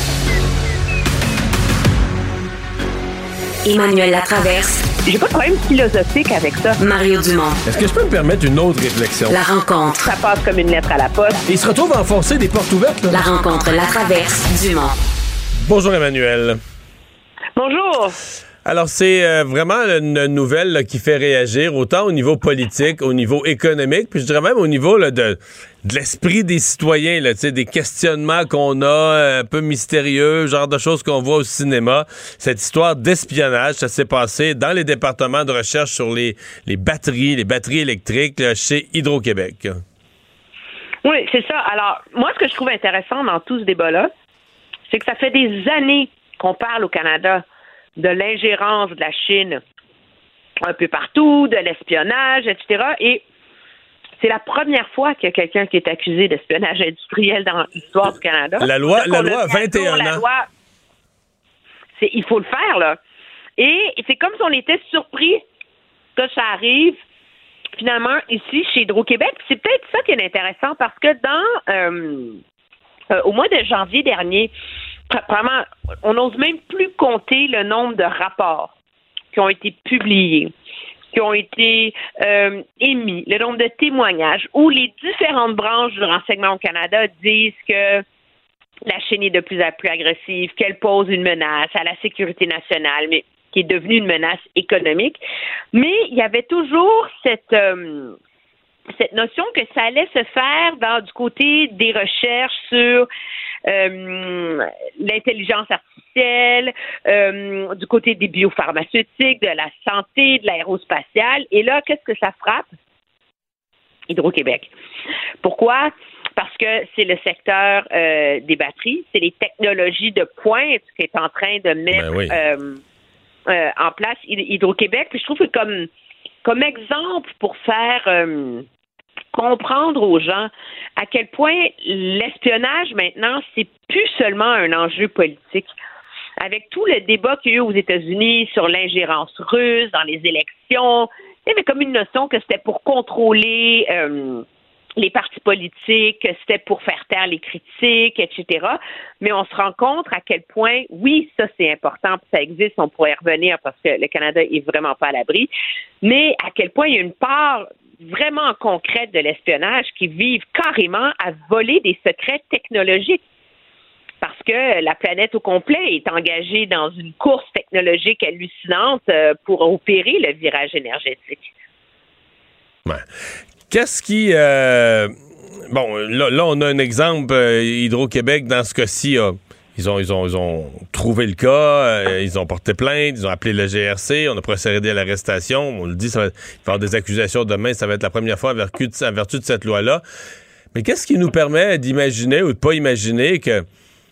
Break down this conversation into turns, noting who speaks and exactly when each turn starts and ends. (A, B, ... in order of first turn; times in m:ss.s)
0:03.6-0:04.8 A
0:05.1-0:06.8 B
0:06.8-0:07.6 A
0:07.7-0:09.4 C
0:09.3-0:10.3 A
0:10.1-0:11.4 B
0:11.5-0:13.2 C
0:13.1-0:15.0 A
0:15.7-0:16.6 C
0:17.6-0:18.2 B
0:18.6-0:39.8 C
0:41.0-0:44.1 B
0:44.9-0:47.4 B
0:48.0-0:49.6 B
0:50.6-0:53.2 B
0:54.2-1:00.5 B
0:58.6-1:00.3 C
1:02.0-1:03.0 B
1:03.6-1:05.4 B
1:06.2-1:07.0 B
1:07.8-1:12.4 B
1:13.1-1:14.5 B
1:15.1-1:18.7 B
1:19.3-1:20.5 B
1:21.1-1:28.0 B
1:28.9-1:35.2 B
1:35.7-1:38.2 B
1:39.0-1:43.1 B
1:43.7-1:52.7 B
1:54.1-1:54.7 B
1:55.4-2:02.8 B
2:01.9-2:02.4 C
2:03.5-2:05.9 B
2:06.4-2:08.6 B
2:09.4-2:15.7 B
2:16.4-2:24.4 B
2:25.0-2:35.5 B
2:36.0-2:43.2 B
2:44.2-2:51.5 B
2:53.7-2:55.1 C
2:55.7-3:10.0 C
3:10.7-3:13.6 C